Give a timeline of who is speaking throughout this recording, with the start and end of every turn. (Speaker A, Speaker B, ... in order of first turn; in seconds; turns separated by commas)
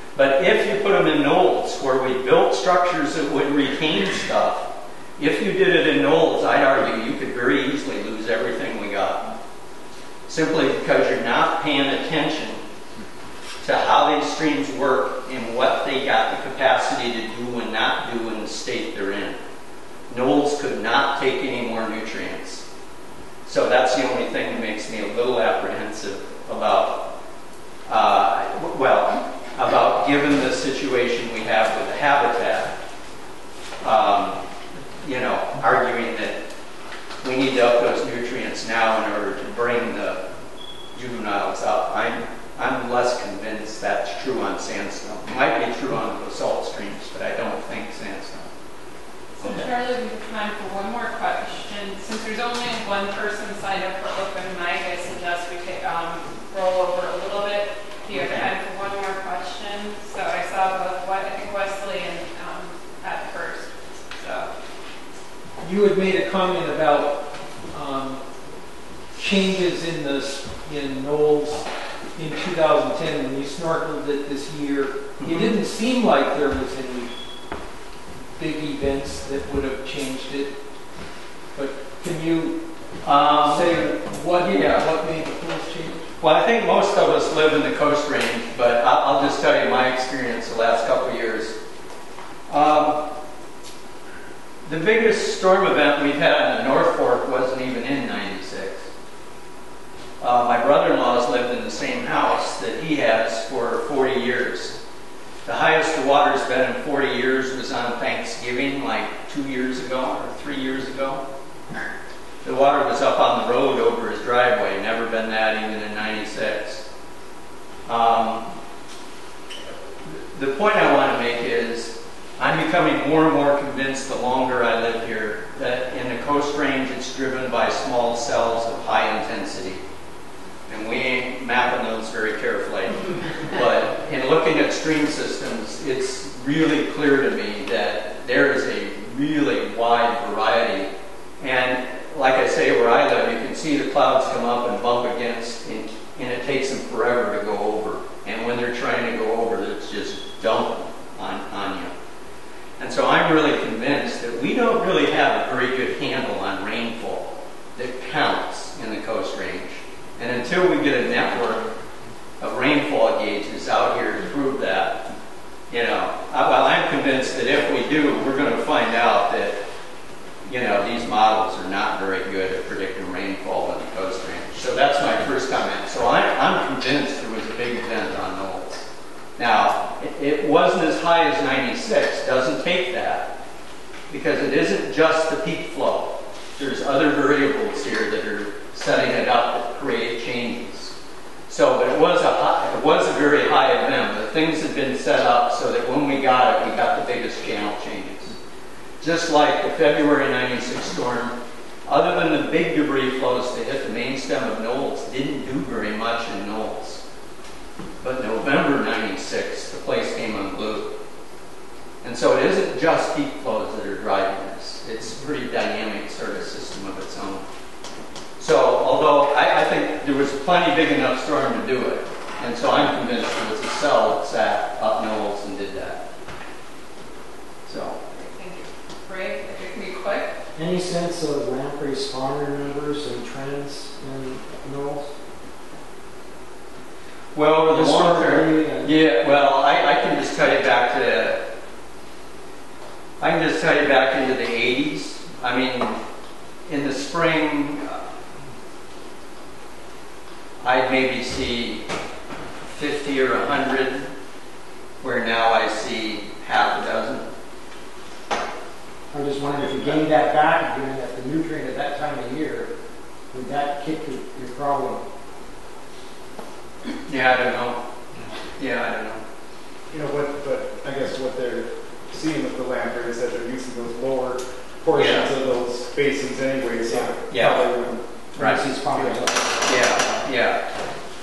Speaker A: 0.1-9.3, Speaker A: 10.3-12.6, Speaker A: 13.6-19.4, Speaker A: 20.1-22.6, Speaker A: 23.5-27.1, Speaker A: 27.9-32.8, Speaker A: 33.8-34.4, Speaker A: 35.0-36.4, Speaker A: 37.2-40.2, Speaker A: 40.9-48.5, Speaker B: 49.4-64.5, Speaker A: 58.1-58.5, Speaker C: 65.6-68.2, Speaker C: 69.1-77.1, Speaker A: 75.2-75.5, Speaker C: 78.4-80.6, Speaker C: 81.5-82.6, Speaker A: 83.0-83.8, Speaker C: 83.4-86.1, Speaker A: 84.3-84.9, Speaker A: 86.2-91.6, Speaker A: 92.5-93.1, Speaker A: 94.7-98.9, Speaker A: 100.2-104.8, Speaker A: 105.5-111.2, Speaker A: 112.4-116.8, Speaker A: 117.9-118.5, Speaker A: 120.0-129.8, Speaker A: 130.7-151.9, Speaker A: 152.8-161.6, Speaker A: 162.4-165.0, Speaker A: 165.7-169.6, Speaker A: 170.5-178.9, Speaker A: 179.4-183.3, Speaker A: 184.1-190.9, Speaker A: 191.5-198.3, Speaker A: 199.0-207.0, Speaker A: 208.0-211.0, Speaker A: 212.0-217.4, Speaker A: 218.4-226.1, Speaker A: 227.7-228.0, Speaker B: 228.2-230.3, Speaker D: 230.6-235.1, Speaker A: 237.3-241.4, Speaker D: 237.7-238.9, Speaker A: 243.2-246.0, Speaker A: 246.7-248.0, Speaker A: 250.6-251.9, Speaker A: 252.7-254.1, Speaker A: 255.0-257.3, Speaker D: 259.1-262.7, Speaker A: 259.6-260.0, Speaker D: 263.3-265.0, Speaker A: 267.1-267.8, Speaker A: 268.6-269.2, Speaker E: 269.9-278.3, Speaker A: 274.9-275.3, Speaker A: 277.3-277.7, Speaker D: 278.4-280.3, Speaker A: 278.4-280.7